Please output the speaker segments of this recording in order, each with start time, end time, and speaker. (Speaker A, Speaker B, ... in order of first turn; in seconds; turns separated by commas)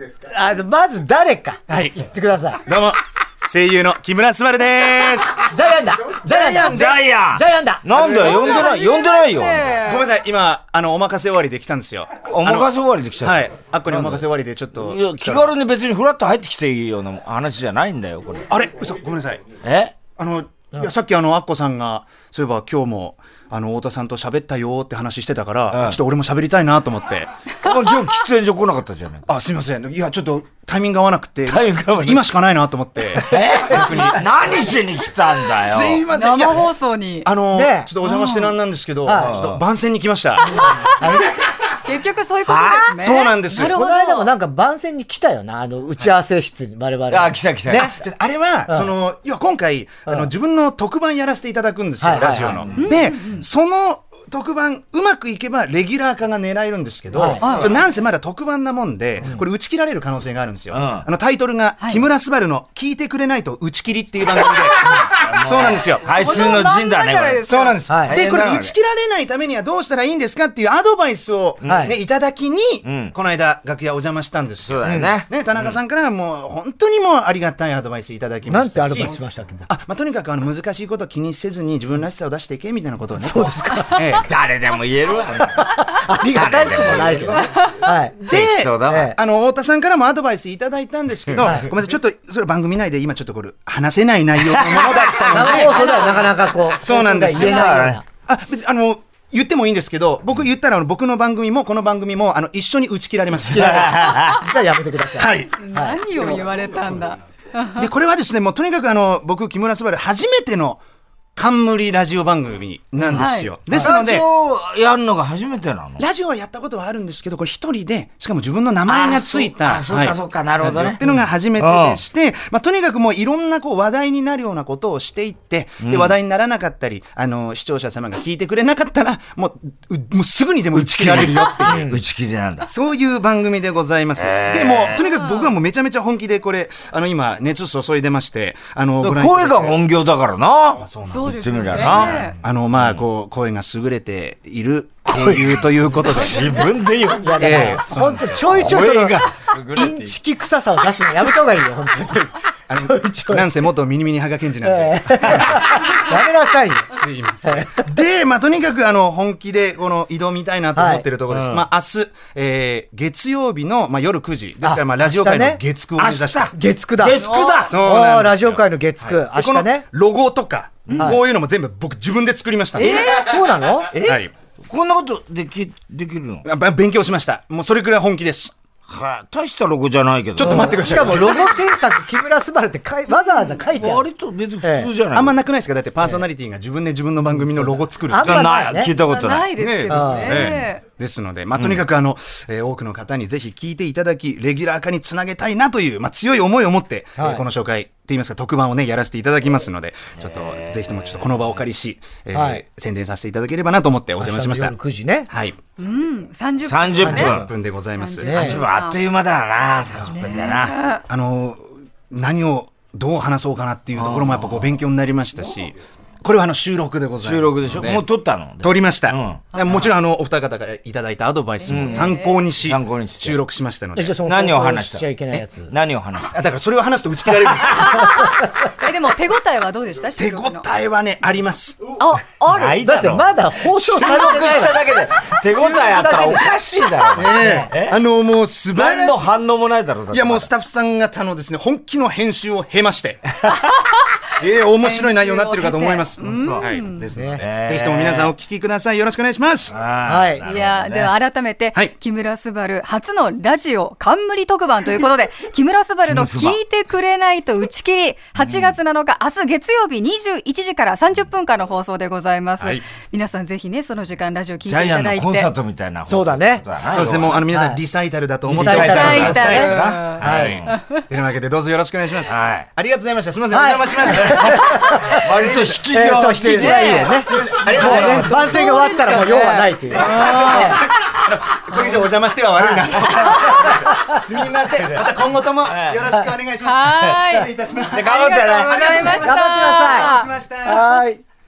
Speaker A: 0.2-2.6, Speaker B: 1.7-2.0, Speaker B: 2.6-5.5, Speaker A: 5.4-8.5, Speaker C: 6.3-9.8, Speaker D: 8.0-10.0, Speaker B: 9.7-12.7, Speaker C: 12.2-14.2, Speaker B: 13.2-15.5, Speaker C: 14.7-18.4, Speaker B: 18.5-19.4, Speaker C: 19.6-19.9, Speaker B: 20.1-27.3, Speaker C: 25.7-26.0, Speaker C: 27.6-29.2, Speaker B: 29.3-34.3, Speaker C: 31.5-32.2, Speaker C: 33.1-36.0, Speaker B: 35.5-36.7, Speaker D: 36.1-37.3, Speaker B: 37.2-40.6, Speaker A: 37.5-37.9, Speaker D: 38.0-38.5, Speaker A: 39.0-39.4, Speaker C: 39.1-39.6, Speaker D: 40.5-44.3, Speaker A: 40.8-41.4, Speaker C: 42.5-42.9, Speaker B: 43.0-43.8, Speaker A: 43.5-48.0, Speaker C: 47.1-47.9, Speaker B: 48.0-66.6, Speaker A: 52.0-52.6, Speaker C: 52.2-52.9, Speaker D: 52.8-53.4, Speaker A: 57.1-57.4, Speaker D: 57.4-57.7, Speaker C: 57.4-57.7, Speaker C: 60.7-61.1, Speaker D: 61.8-62.0, Speaker C: 64.9-67.5, Speaker D: 66.2-67.8, Speaker B: 67.4-79.1, Speaker A: 67.9-68.2, Speaker C: 68.0-68.7, Speaker C: 71.6-71.9, Speaker A: 71.6-71.9, Speaker C: 72.8-73.1, Speaker C: 74.6-75.8, Speaker A: 74.8-75.1, Speaker A: 78.5-79.7, Speaker B: 79.7-84.3, Speaker A: 83.2-84.1, Speaker C: 84.3-87.4, Speaker A: 85.6-89.2, Speaker B: 86.9-95.9, Speaker C: 88.3-89.1, Speaker A: 91.4-91.7, Speaker C: 94.4-95.6, Speaker A: 95.3-98.0, Speaker D: 95.6-96.6, Speaker B: 96.8-104.2, Speaker D: 97.3-97.8, Speaker C: 97.4-98.0, Speaker A: 103.4-106.2, Speaker C: 103.5-104.4, Speaker B: 105.2-105.5, Speaker D: 105.6-107.9, Speaker B: 107.8-110.8, Speaker B: 111.3-114.2, Speaker C: 113.0-116.0, Speaker D: 113.1-113.5, Speaker B: 116.0-131.9, Speaker C: 118.9-121.0, Speaker C: 121.6-122.0, Speaker C: 125.8-126.2, Speaker C: 130.7-132.7, Speaker A: 131.7-132.0, Speaker B: 132.6-139.8, Speaker C: 134.2-135.0, Speaker D: 135.0-135.5, Speaker C: 139.0-143.0, Speaker B: 140.8-146.7, Speaker D: 141.0-142.4, Speaker C: 145.1-147.8, Speaker A: 147.2-153.5, Speaker B: 147.4-148.9, Speaker C: 148.3-150.2, Speaker B: 152.7-156.1, Speaker A: 154.6-156.9, Speaker B: 156.9-166.5, Speaker A: 157.4-157.8, Speaker A: 160.7-161.0, Speaker C: 161.3-161.6, Speaker A: 164.6-165.6, Speaker C: 166.0-167.8, Speaker A: 166.5-169.8, Speaker D: 167.2-167.7, Speaker B: 167.6-173.1, Speaker C: 170.9-171.1, Speaker D: 172.8-173.3, Speaker A: 172.8-173.9, Speaker B: 173.9-174.3, Speaker C: 174.7-176.4, Speaker B: 176.4-178.5, Speaker C: 178.9-181.5, Speaker B: 180.4-181.6, Speaker A: 180.4-184.1, Speaker D: 183.1-183.5, Speaker C: 183.8-185.3, Speaker A: 184.6-184.9, Speaker B: 185.1-188.6, Speaker A: 187.2-188.9, Speaker C: 188.2-189.5, Speaker D: 189.0-190.8, Speaker B: 189.6-204.7, Speaker A: 189.9-190.5, Speaker C: 191.6-191.8, Speaker A: 197.2-197.4, Speaker C: 200.2-201.2, Speaker A: 202.3-202.6, Speaker A: 204.2-205.3, Speaker B: 205.3-205.6, Speaker D: 205.8-207.4, Speaker C: 206.7-207.5, Speaker A: 207.0-207.5, Speaker B: 207.0-208.3, Speaker D: 208.0-209.0, Speaker A: 208.2-208.6, Speaker C: 208.3-210.9, Speaker D: 210.1-211.0, Speaker B: 211.1-218.0, Speaker C: 214.0-214.7, Speaker C: 217.2-219.9, Speaker B: 218.6-224.2, Speaker D: 221.6-222.4, Speaker C: 221.7-223.4, Speaker A: 223.9-225.7, Speaker C: 224.2-226.3, Speaker B: 226.3-228.3, Speaker D: 227.7-230.7, Speaker B: 230.2-231.9, Speaker D: 232.0-232.8, Speaker C: 232.5-238.0, Speaker A: 232.6-234.9, Speaker A: 235.5-236.5, Speaker B: 237.1-239.3, Speaker A: 237.2-237.7, Speaker C: 238.7-240.5, Speaker B: 240.1-243.5, Speaker D: 243.6-244.2, Speaker B: 244.4-249.8, Speaker D: 244.8-247.0, Speaker C: 246.2-246.6, Speaker A: 247.1-247.4, Speaker C: 247.4-248.3, Speaker C: 249.7-251.1, Speaker A: 250.1-250.4, Speaker D: 250.4-265.5, Speaker C: 256.1-256.6, Speaker C: 258.4-258.7, Speaker C: 264.6-267.4, Speaker A: 266.1-266.6, Speaker B: 266.8-275.8, Speaker A: 267.5-267.8, Speaker C: 268.5-270.7, Speaker A: 268.5-270.6, Speaker D: 268.8-271.0, Speaker C: 272.3-272.6, Speaker A: 273.5-275.2, Speaker C: 275.1-278.6, Speaker A: 275.9-280.8, Speaker D: 276.5-280.8, Speaker B: 277.2-278.7, Speaker B: 279.9-291.0, Speaker C: 280.0-280.6, Speaker D: 283.0-283.9, Speaker C: 284.6-285.0, Speaker C: 285.7-286.0, Speaker D: 286.6-290.3, Speaker C: 287.9-289.2, Speaker A: 289.1-291.2